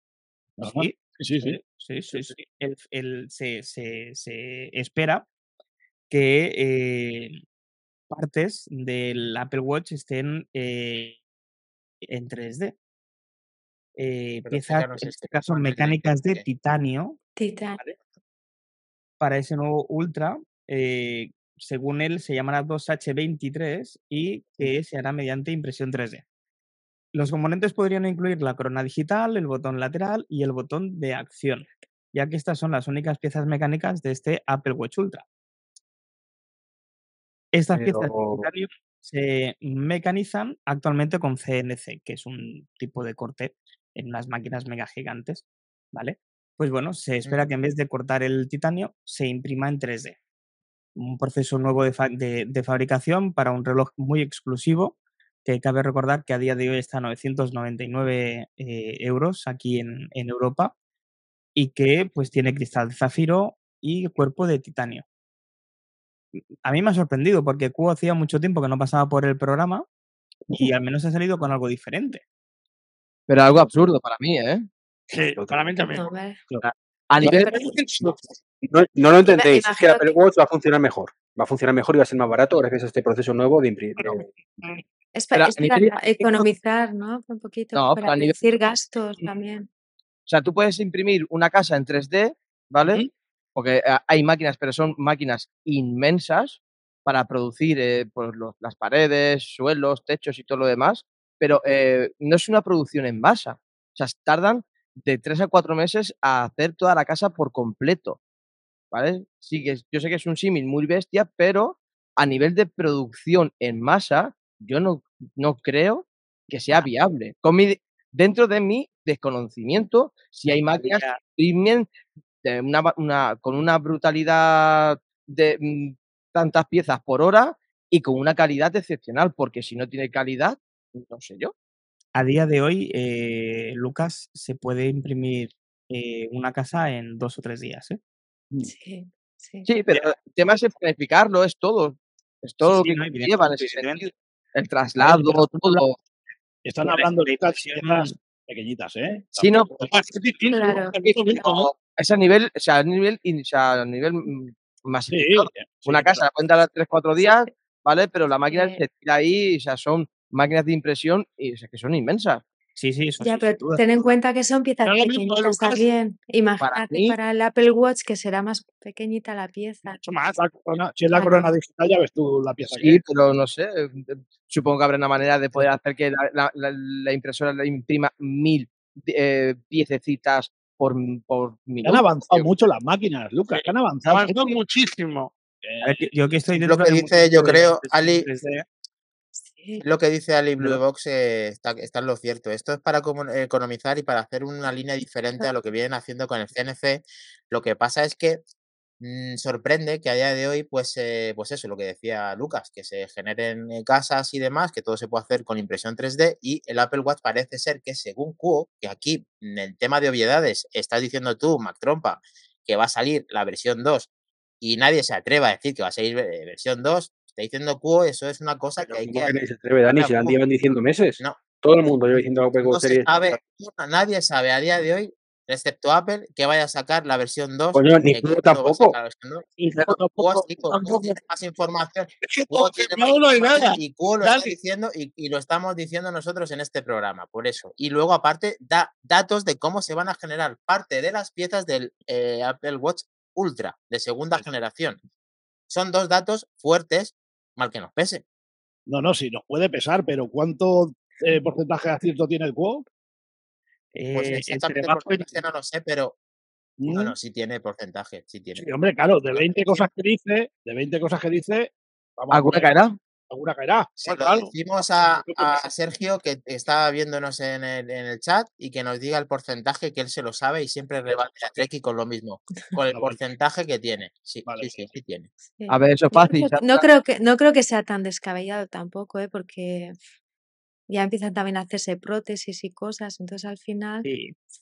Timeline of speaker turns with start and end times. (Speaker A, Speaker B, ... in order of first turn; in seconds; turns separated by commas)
Speaker A: 0.6-1.6, Speaker B: 0.6-5.2, Speaker B: 6.1-7.4, Speaker B: 8.1-11.2, Speaker B: 12.1-12.7, Speaker B: 14.0-17.2, Speaker C: 14.4-16.4, Speaker D: 17.4-17.8, Speaker B: 19.2-26.2, Speaker B: 27.1-35.2, Speaker B: 37.5-50.2, Speaker E: 37.7-38.5, Speaker B: 51.0-60.7, Speaker B: 61.5-65.0, Speaker B: 66.6-69.8, Speaker B: 70.5-72.2, Speaker F: 73.3-74.7, Speaker G: 75.1-76.0, Speaker E: 75.3-75.6, Speaker D: 75.9-76.4, Speaker F: 77.1-77.5, Speaker G: 77.6-78.1, Speaker E: 78.7-84.2, Speaker D: 79.3-80.2, Speaker D: 85.1-89.7, Speaker F: 85.3-86.0, Speaker F: 87.7-88.4, Speaker F: 90.3-93.0, Speaker F: 93.5-108.2, Speaker F: 108.9-121.9, Speaker B: 120.8-121.2, Speaker F: 122.4-131.5, Speaker B: 132.1-138.0, Speaker D: 138.6-139.7, Speaker F: 139.7-146.0, Speaker B: 142.6-144.1, Speaker B: 145.0-145.4, Speaker A: 146.6-149.6, Speaker B: 146.8-148.1, Speaker F: 149.4-149.9, Speaker G: 149.8-151.7, Speaker D: 150.5-151.7, Speaker F: 151.7-162.4, Speaker A: 155.1-156.2, Speaker D: 158.4-158.8, Speaker B: 162.8-163.8, Speaker D: 163.2-170.0, Speaker G: 164.8-165.8, Speaker F: 166.6-167.2, Speaker A: 170.1-173.0, Speaker D: 171.1-171.5, Speaker F: 172.7-182.5, Speaker A: 181.8-184.3, Speaker G: 183.5-185.3, Speaker A: 185.6-186.0, Speaker B: 185.8-188.6, Speaker C: 186.6-188.3, Speaker D: 189.5-189.8, Speaker C: 189.8-198.4, Speaker C: 199.0-214.1, Speaker C: 214.6-220.4, Speaker E: 218.8-223.4, Speaker C: 222.6-229.5, Speaker E: 227.7-229.0, Speaker A: 229.6-230.5, Speaker C: 230.2-245.0, Speaker G: 230.7-231.2, Speaker G: 232.2-234.5, Speaker C: 245.7-248.2, Speaker A: 248.9-252.8, Speaker B: 253.9-255.3, Speaker C: 254.1-256.1, Speaker A: 256.8-257.1, Speaker C: 256.9-258.6, Speaker A: 258.6-264.5, Speaker C: 259.3-259.8, Speaker F: 262.3-262.9, Speaker C: 264.0-275.3, Speaker A: 265.1-265.6, Speaker A: 272.9-273.2, Speaker A: 274.4-274.9, Speaker D: 275.6-279.9, Speaker F: 275.7-276.9, Speaker D: 280.9-284.1, Speaker B: 284.0-284.3